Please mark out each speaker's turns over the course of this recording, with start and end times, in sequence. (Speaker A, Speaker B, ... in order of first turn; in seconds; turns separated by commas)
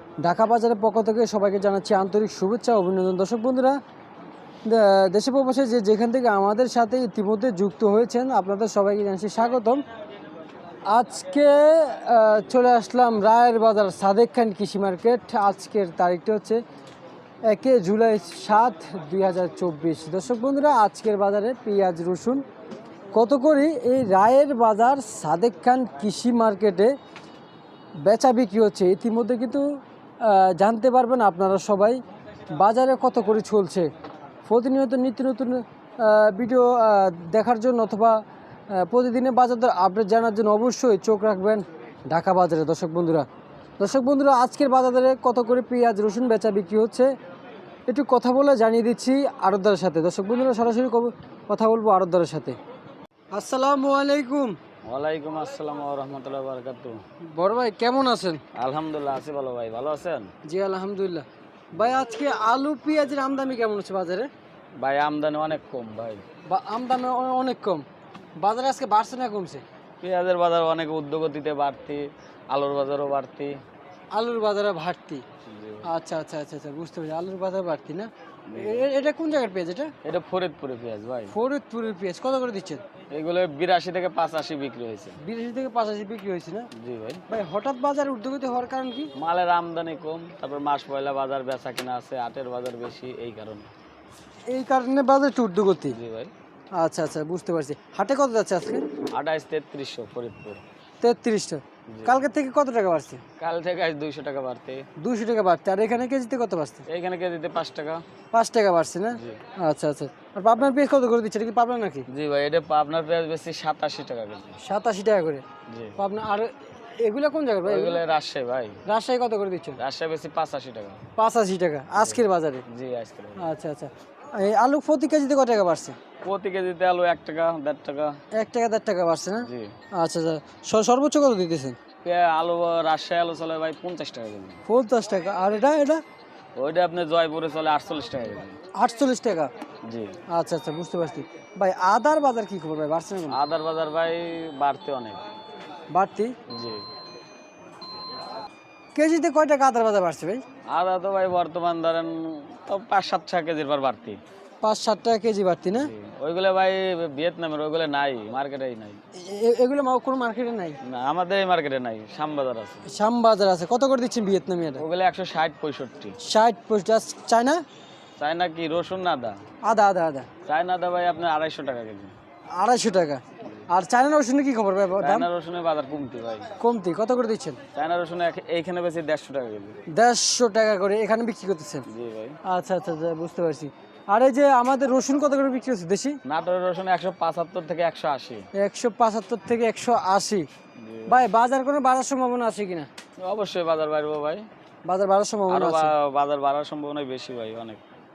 Speaker A: 0.2-3.8, Speaker A: 4.7-9.8, Speaker A: 10.9-16.6, Speaker A: 17.5-22.4, Speaker A: 23.1-26.9, Speaker A: 28.0-29.6, Speaker A: 30.2-32.0, Speaker A: 32.5-33.9, Speaker A: 34.5-43.2, Speaker A: 43.8-47.1, Speaker A: 47.9-52.6, Speaker A: 53.3-54.6, Speaker B: 54.9-57.0, Speaker A: 57.3-58.4, Speaker B: 58.5-60.3, Speaker A: 60.4-64.3, Speaker B: 64.8-66.2, Speaker A: 66.5-67.8, Speaker A: 68.4-69.6, Speaker B: 70.0-73.6, Speaker A: 74.1-75.2, Speaker B: 75.5-75.9, Speaker A: 75.8-79.9, Speaker B: 78.5-78.9, Speaker B: 80.0-81.3, Speaker A: 81.3-82.8, Speaker B: 83.1-85.2, Speaker A: 85.2-86.7, Speaker B: 86.7-87.2, Speaker A: 87.3-89.1, Speaker B: 89.2-93.7, Speaker A: 94.5-96.0, Speaker B: 95.9-96.3, Speaker A: 96.8-98.8, Speaker B: 99.1-100.6, Speaker A: 101.0-103.2, Speaker B: 101.9-102.2, Speaker B: 103.4-104.8, Speaker A: 105.0-106.8, Speaker B: 106.9-108.0, Speaker A: 108.3-112.0, Speaker B: 112.1-114.6, Speaker A: 114.6-115.4, Speaker B: 115.7-116.0, Speaker A: 116.0-118.0, Speaker B: 117.7-118.8, Speaker A: 118.8-119.8, Speaker B: 119.8-121.0, Speaker A: 121.2-122.6, Speaker B: 122.0-123.5, Speaker A: 123.4-126.0, Speaker B: 126.2-128.2, Speaker A: 128.4-131.8, Speaker B: 129.4-129.7, Speaker B: 132.0-134.6, Speaker A: 134.7-136.0, Speaker B: 136.6-138.6, Speaker A: 138.7-139.5, Speaker B: 139.8-140.2, Speaker A: 140.3-143.4, Speaker B: 143.3-145.2, Speaker A: 145.9-146.3, Speaker B: 146.5-146.8, Speaker A: 148.9-150.4, Speaker B: 150.7-154.2, Speaker A: 154.6-155.9, Speaker B: 155.7-159.0, Speaker A: 159.2-160.8, Speaker B: 160.8-162.8, Speaker A: 162.9-164.8, Speaker B: 164.8-166.2, Speaker A: 166.2-167.6, Speaker B: 168.2-169.4, Speaker A: 169.6-170.3, Speaker B: 170.4-172.2, Speaker A: 172.6-175.3, Speaker B: 175.0-176.5, Speaker A: 176.6-177.6, Speaker B: 177.7-179.8, Speaker A: 179.9-181.8, Speaker B: 181.9-182.4, Speaker A: 182.4-186.2, Speaker B: 186.2-188.4, Speaker A: 188.5-190.4, Speaker B: 190.8-191.3, Speaker A: 191.1-192.9, Speaker B: 193.2-194.5, Speaker A: 194.9-195.9, Speaker B: 195.5-197.8